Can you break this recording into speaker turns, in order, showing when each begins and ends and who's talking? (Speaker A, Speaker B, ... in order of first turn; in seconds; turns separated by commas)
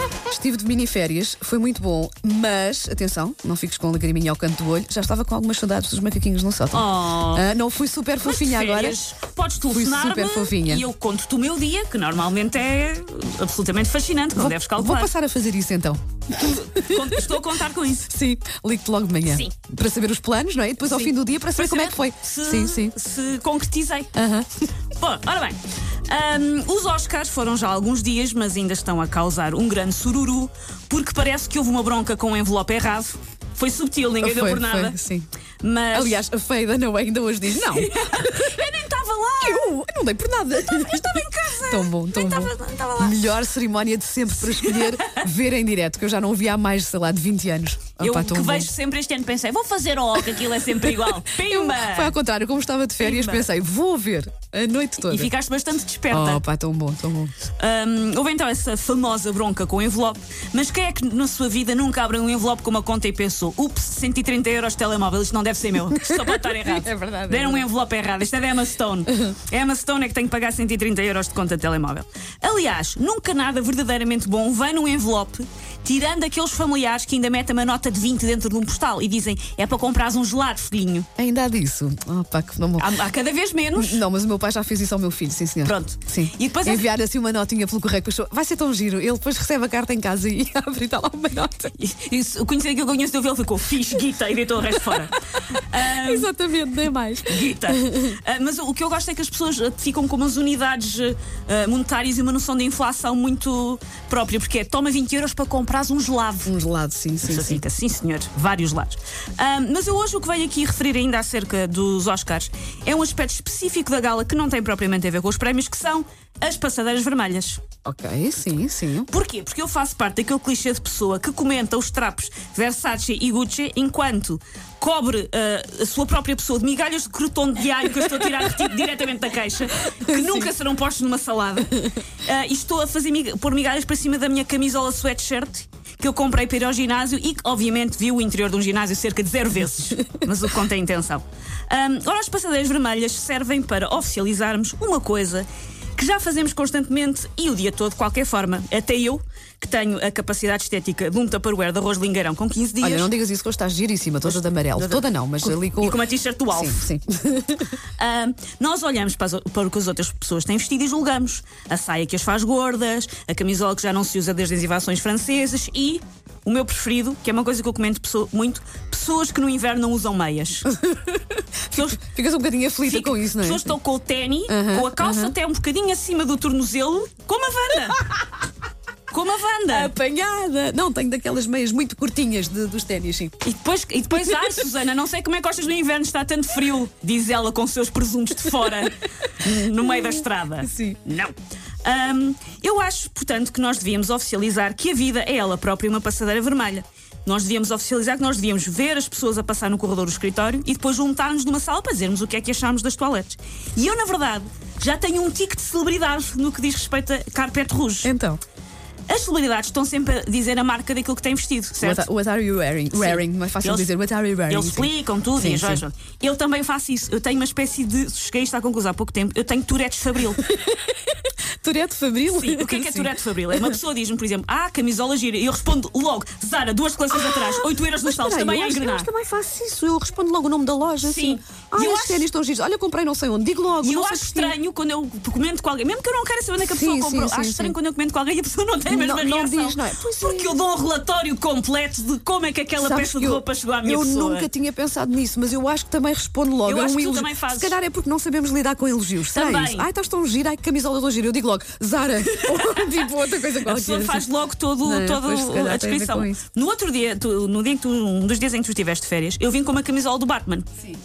Speaker A: 0.3-9.0, Speaker B: 6.7-7.5, Speaker B: 8.2-15.1, Speaker A: 9.7-10.8, Speaker A: 14.4-17.5, Speaker B: 16.4-18.1, Speaker A: 18.1-23.0, Speaker B: 19.2-19.5, Speaker B: 20.9-24.1, Speaker A: 24.1-24.6, Speaker B: 25.0-35.0, Speaker A: 34.2-35.3, Speaker B: 35.6-36.2, Speaker A: 35.9-38.7, Speaker B: 37.5-39.7, Speaker A: 39.4-48.7, Speaker B: 40.6-43.3, Speaker B: 44.4-45.3, Speaker B: 48.0-52.2, Speaker A: 50.2-55.3, Speaker B: 53.0-53.5, Speaker B: 55.0-56.4, Speaker A: 56.1-57.3, Speaker B: 57.6-81.1, Speaker A: 65.9-67.7, Speaker A: 81.2-83.0, Speaker B: 82.8-84.0, Speaker A: 83.8-91.8, Speaker B: 85.6-86.9, Speaker B: 91.8-96.3, Speaker A: 95.8-98.2, Speaker B: 97.3-106.5, Speaker A: 106.5-107.6, Speaker B: 107.2-117.6, Speaker A: 117.8-119.1, Speaker B: 119.1-153.1, Speaker A: 130.0-130.5, Speaker A: 152.8-157.7, Speaker B: 154.3-156.9, Speaker B: 158.0-170.7, Speaker A: 170.7-173.8, Speaker B: 171.7-172.0, Speaker B: 172.8-178.1, Speaker A: 174.5-175.3, Speaker B: 179.1-179.9, Speaker A: 179.7-183.4, Speaker B: 183.4-208.1, Speaker A: 190.6-191.0, Speaker A: 208.0-208.4, Speaker B: 209.1-212.1, Speaker A: 211.8-215.8, Speaker B: 212.9-213.9, Speaker B: 214.5-220.4, Speaker A: 220.4-223.8, Speaker B: 222.3-229.1, Speaker A: 227.1-234.6, Speaker B: 231.0-232.3, Speaker B: 233.8-244.5, Speaker A: 236.6-237.8, Speaker A: 238.9-240.6, Speaker A: 242.8-254.3, Speaker B: 246.6-247.8, Speaker B: 249.3-249.9, Speaker B: 252.3-253.0, Speaker B: 253.6-260.9, Speaker A: 254.8-256.4